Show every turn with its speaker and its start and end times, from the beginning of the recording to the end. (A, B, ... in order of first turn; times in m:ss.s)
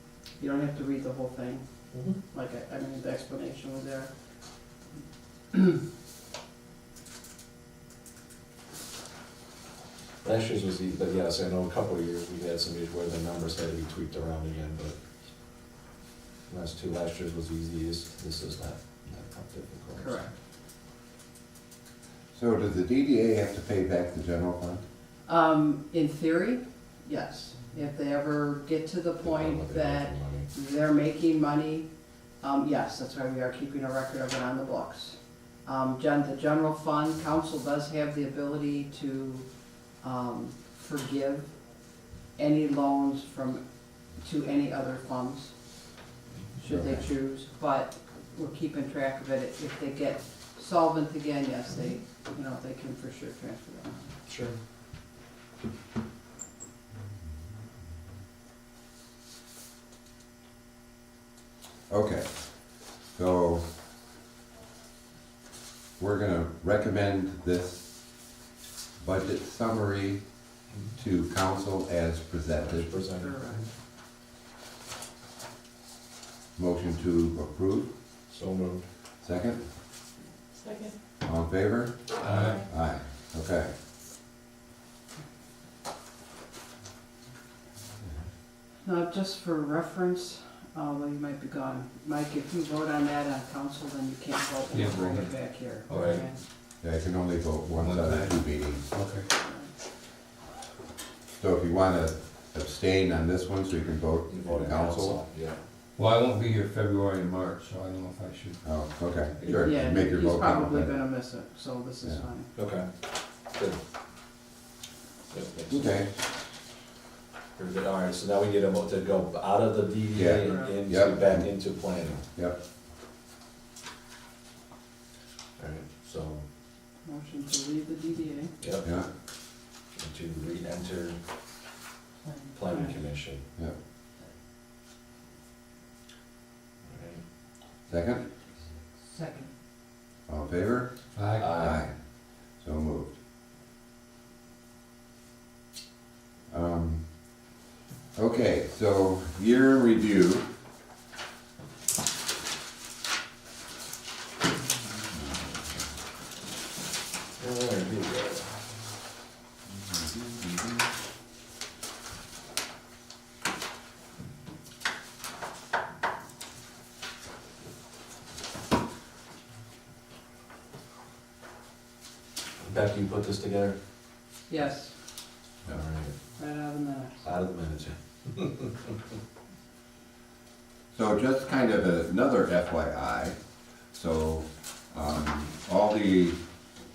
0:00.4-0:04.1 A
0:01.9-0:02.2 B
0:05.5-0:05.8 A
0:10.2-0:15.0 B
0:16.5-0:20.3 B
0:19.9-0:20.3 A
0:22.3-0:24.8 C
0:25.3-0:31.9 A
0:29.2-0:30.5 B
0:32.4-0:39.5 A
0:40.0-0:41.6 A
0:42.4-0:43.6 A
0:44.2-0:45.5 A
0:46.6-0:54.2 A
0:46.6-0:47.0 C
0:54.3-0:54.6 B
1:01.9-1:03.6 C
1:06.0-1:08.0 C
1:09.0-1:10.2 C
1:11.0-1:12.9 C
1:12.6-1:13.6 B
1:13.1-1:13.7 A
1:16.6-1:17.9 C
1:18.3-1:18.8 B
1:19.2-1:19.6 C
1:21.2-1:23.7 C
1:22.2-1:22.6 D
1:28.8-1:36.4 A
1:34.7-1:36.2 D
1:35.9-1:36.2 B
1:36.8-1:38.8 C
1:37.8-1:39.3 D
1:39.4-1:39.7 A
1:41.4-1:45.2 C
1:44.3-1:45.6 B
1:46.0-1:48.6 D
1:48.6-1:50.9 C
1:49.4-1:49.7 B
1:49.5-1:52.5 A
1:52.5-1:52.9 B
1:53.5-1:53.8 B
1:55.3-1:55.9 B
1:55.7-1:56.1 C
1:57.6-2:02.2 B
2:00.1-2:01.5 C
2:00.4-2:00.7 A
2:02.3-2:02.6 C
2:05.6-2:06.4 B
2:07.0-2:08.5 A
2:08.6-2:08.9 B
2:08.8-2:09.1 C
2:10.0-2:11.2 B
2:12.2-2:13.0 A
2:12.5-2:13.4 B
2:16.8-2:17.2 B
2:17.9-2:18.2 C
2:19.1-2:19.5 A
2:20.3-2:21.9 C
2:21.2-2:21.6 D
2:21.4-2:21.9 B
2:22.6-2:23.1 C
2:26.5-2:27.0 C
2:28.2-2:30.5 C
2:35.0-2:35.9 C
2:37.4-2:38.6 B
2:39.7-2:40.8 C
2:52.6-2:53.8 B
2:54.5-2:54.9 A
2:55.6-2:56.1 B
2:56.4-2:57.3 A
2:57.2-2:58.9 B
3:00.9-3:03.4 C
3:03.9-3:06.4 C